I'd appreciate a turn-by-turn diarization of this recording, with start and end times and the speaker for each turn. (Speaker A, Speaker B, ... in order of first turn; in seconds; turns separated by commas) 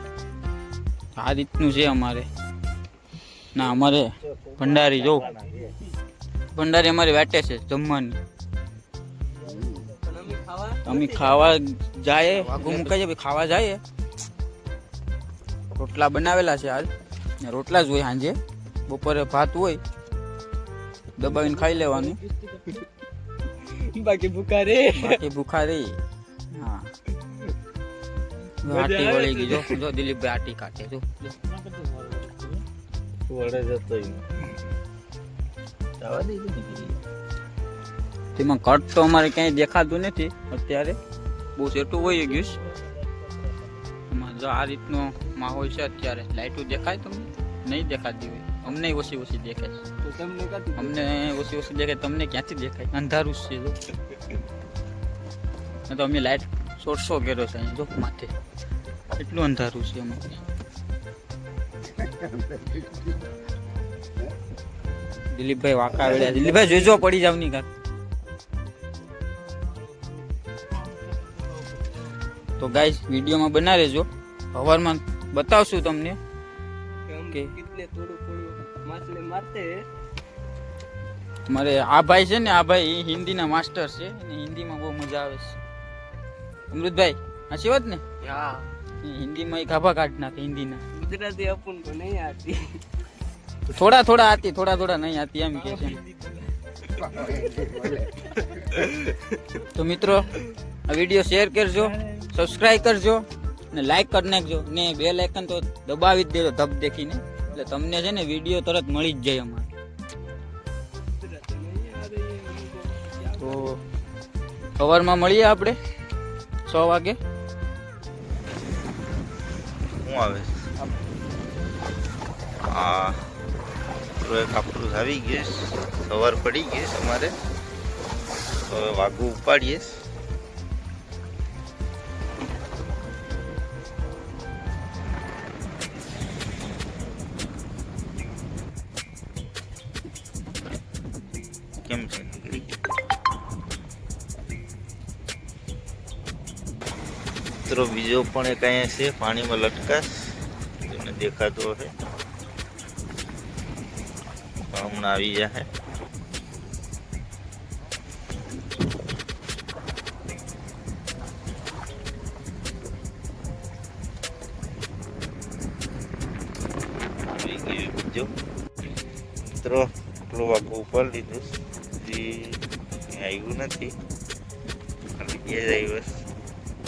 Speaker A: 1.1-2.3, Speaker A: 3.5-4.1, Speaker B: 4.2-5.7, Speaker A: 4.6-5.2, Speaker A: 6.5-8.2, Speaker C: 9.7-11.5, Speaker A: 10.8-13.8, Speaker A: 15.7-16.9, Speaker A: 17.4-18.4, Speaker A: 18.9-19.8, Speaker A: 21.2-22.2, Speaker C: 21.2-22.9, Speaker C: 23.6-25.2, Speaker A: 24.9-26.0, Speaker A: 26.5-26.9, Speaker A: 28.6-31.0, Speaker C: 28.6-29.8, Speaker B: 31.2-32.6, Speaker B: 33.3-34.2, Speaker B: 36.0-37.0, Speaker A: 38.4-41.0, Speaker A: 41.6-42.6, Speaker A: 44.1-49.8, Speaker C: 50.0-51.0, Speaker A: 50.8-53.8, Speaker A: 55.9-58.3, Speaker A: 59.1-60.4, Speaker A: 65.3-67.7, Speaker B: 66.0-66.7, Speaker A: 72.6-76.2, Speaker C: 77.0-79.8, Speaker A: 81.5-85.6, Speaker A: 86.7-88.0, Speaker C: 88.2-88.7, Speaker A: 89.0-90.8, Speaker C: 90.9-92.8, Speaker A: 93.7-96.0, Speaker C: 95.6-99.6, Speaker A: 99.7-100.3, Speaker A: 100.9-109.7, Speaker C: 111.2-113.7, Speaker A: 113.4-113.8, Speaker A: 114.8-115.8, Speaker A: 116.7-117.2, Speaker B: 120.0-120.5, Speaker B: 122.7-123.2, Speaker B: 124.2-127.3, Speaker B: 128.7-129.9, Speaker B: 141.9-142.7, Speaker B: 147.7-150.3, Speaker B: 150.8-151.9, Speaker B: 154.7-155.7, Speaker B: 167.3-168.3, Speaker B: 169.4-172.6, Speaker B: 173.1-173.9, Speaker B: 175.2-176.1